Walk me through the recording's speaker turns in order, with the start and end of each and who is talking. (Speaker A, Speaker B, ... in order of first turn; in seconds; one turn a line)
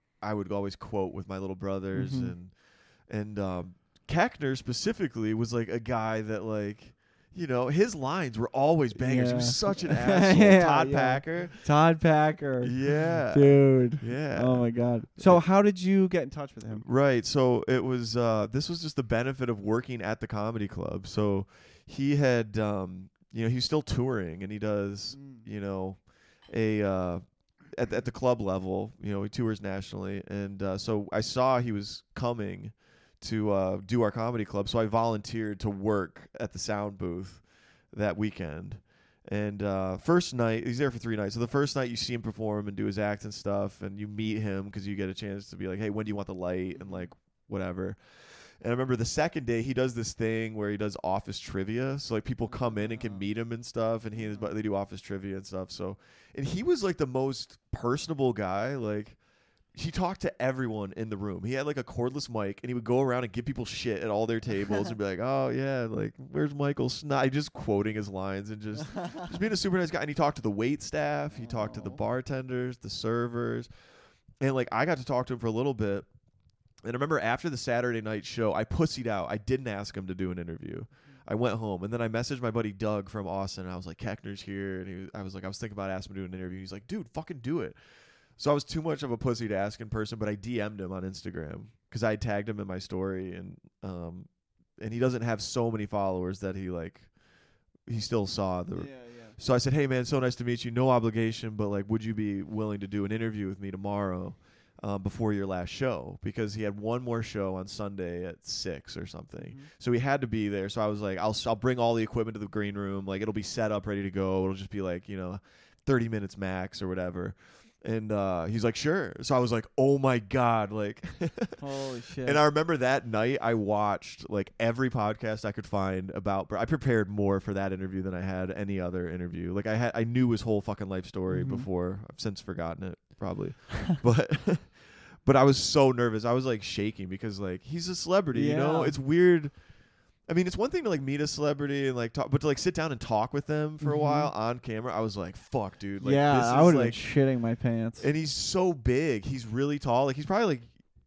Speaker A: 0.2-11.7
Speaker B: 1.9-2.3
Speaker B: 8.9-12.8
Speaker A: 12.6-15.4
Speaker B: 13.3-16.9
Speaker A: 16.7-59.2
Speaker B: 25.1-25.4
Speaker B: 46.8-47.1
Speaker B: 52.7-53.2
Speaker B: 54.2-54.5
Speaker A: 59.7-73.7
Speaker B: 71.4-72.0
Speaker A: 74.4-76.1
Speaker A: 76.8-87.8
Speaker A: 88.4-97.1
Speaker A: 97.8-121.6
Speaker B: 98.7-99.3
Speaker B: 109.4-109.7
Speaker B: 121.6-122.4
Speaker A: 122.2-139.6
Speaker B: 131.3-131.7
Speaker B: 138.3-139.0
Speaker A: 140.2-147.0
Speaker B: 143.8-144.3
Speaker B: 146.0-148.1
Speaker A: 148.0-150.7